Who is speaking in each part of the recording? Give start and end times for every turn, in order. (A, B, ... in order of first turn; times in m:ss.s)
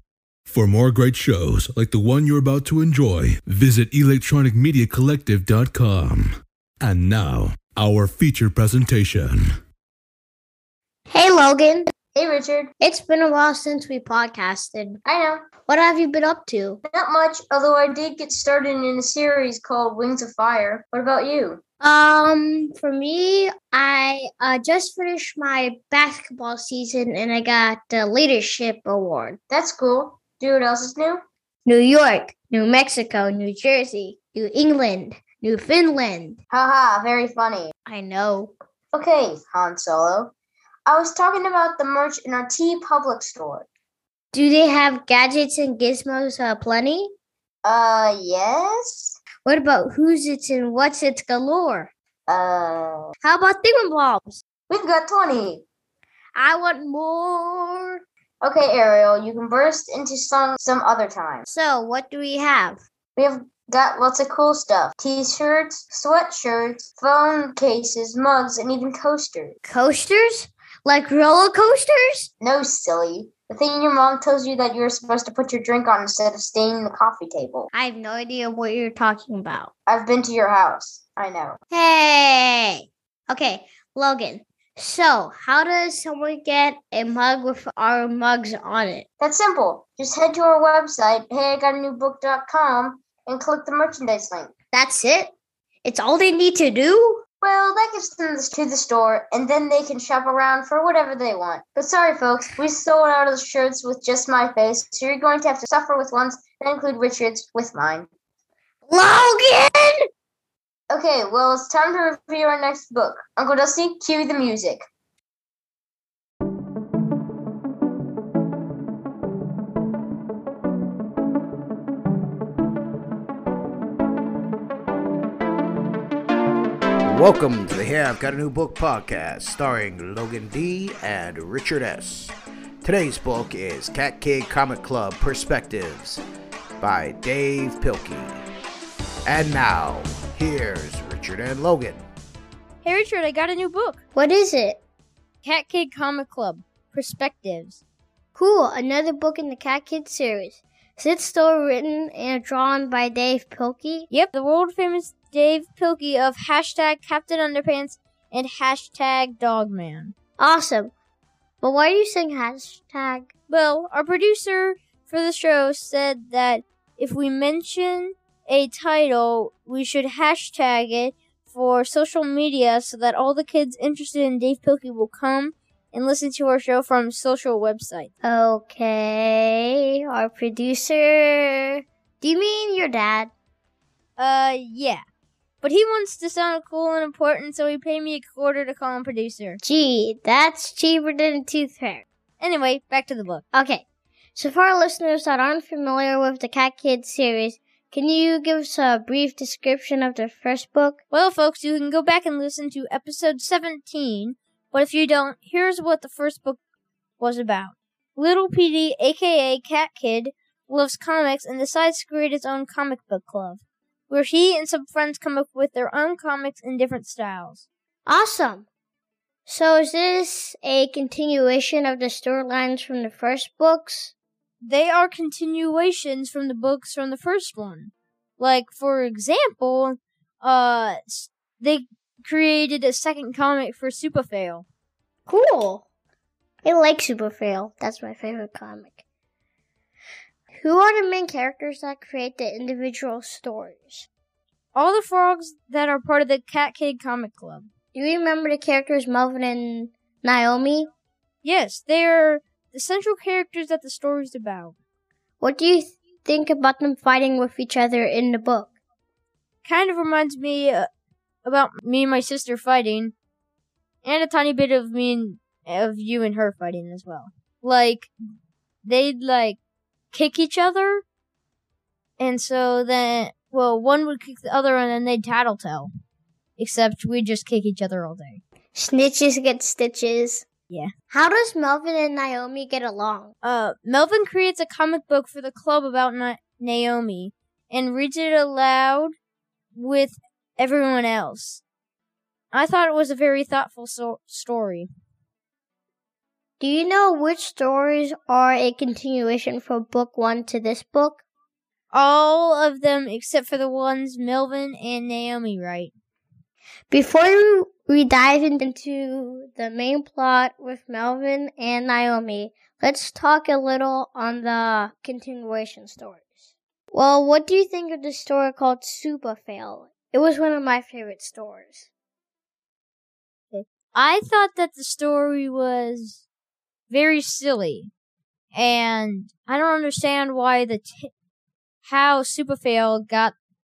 0:00.5-0:06.3 A
0:06.8-0:09.5 A
0:11.1-0:11.9 B
0:12.1-0:12.7 C
0:12.8-0:15.0 B
0:15.0-0:15.4 C
0:15.6-0:16.8 B
0:16.9-0:21.6 C
0:21.8-0:29.4 B
0:29.5-0:31.2 C
0:31.6-0:36.4 B
0:36.5-0:37.7 C
0:37.8-0:38.5 B
0:38.9-0:40.3 C
0:40.9-0:43.7 C
0:44.3-0:47.1 B
0:47.6-0:49.2 C
0:49.4-0:51.9 B
0:52.3-0:53.1 C
0:53.2-0:54.4 B
0:54.7-0:55.6 C
0:56.4-0:58.0 B
0:58.4-1:01.4 C
1:01.5-1:02.8 B
1:03.2-1:09.6 C
1:09.6-1:12.3 B
1:12.4-1:17.7 C
1:17.7-1:19.7 B
1:19.9-1:21.6 C
1:21.7-1:29.1 B
1:29.2-1:34.5 C
1:34.7-1:35.3 B
1:35.8-1:37.2 B
1:37.4-1:48.1 C
1:48.9-1:50.0 B
1:50.9-1:54.8 C
2:07.0-2:16.2 D
2:16.8-2:18.3 D
2:19.3-2:22.0 D
2:22.8-2:24.0 E
2:24.1-2:24.8 B
2:25.4-2:27.8 E
2:28.3-2:34.1 B
2:34.1-2:40.1 E
2:40.4-2:40.9 B
2:41.6-2:43.3 B
2:43.5-2:58.1 E
2:58.2-3:03.3 B
3:04.2-3:05.0 E
3:05.6-3:09.6 E
3:09.6-3:12.0 B
3:12.4-3:13.4 E
3:13.5-3:21.0 B
3:21.1-3:26.6 E
3:27.2-3:37.6 E
3:38.0-3:38.7 B
3:39.4-3:44.1 B
3:44.6-3:54.6 E
3:55.3-3:55.8 B
3:56.6-3:59.0 B
4:00.5-4:04.1 B
4:04.7-4:07.7 E
4:07.9-4:10.9 B
4:11.4-4:14.7 E
4:15.4-4:18.7 B
4:19.6-4:20.9 E
4:21.4-4:23.1 E
4:24.0-4:28.1 E
4:28.8-4:29.6 E
4:30.1-4:31.0 E
4:32.2-4:35.9 E
4:36.6-4:38.4 E
4:38.7-4:40.4 B
4:41.1-4:43.3 B
4:43.4-4:49.1 E
4:49.7-4:51.6 E
4:52.5-4:54.9 E
4:56.6-5:01.2 B
5:01.9-5:05.9 E
5:06.9-5:21.9 B
5:23.5-5:26.2 E
5:26.9-5:27.9 E
5:28.5-5:31.1 E
5:31.8-5:33.3 E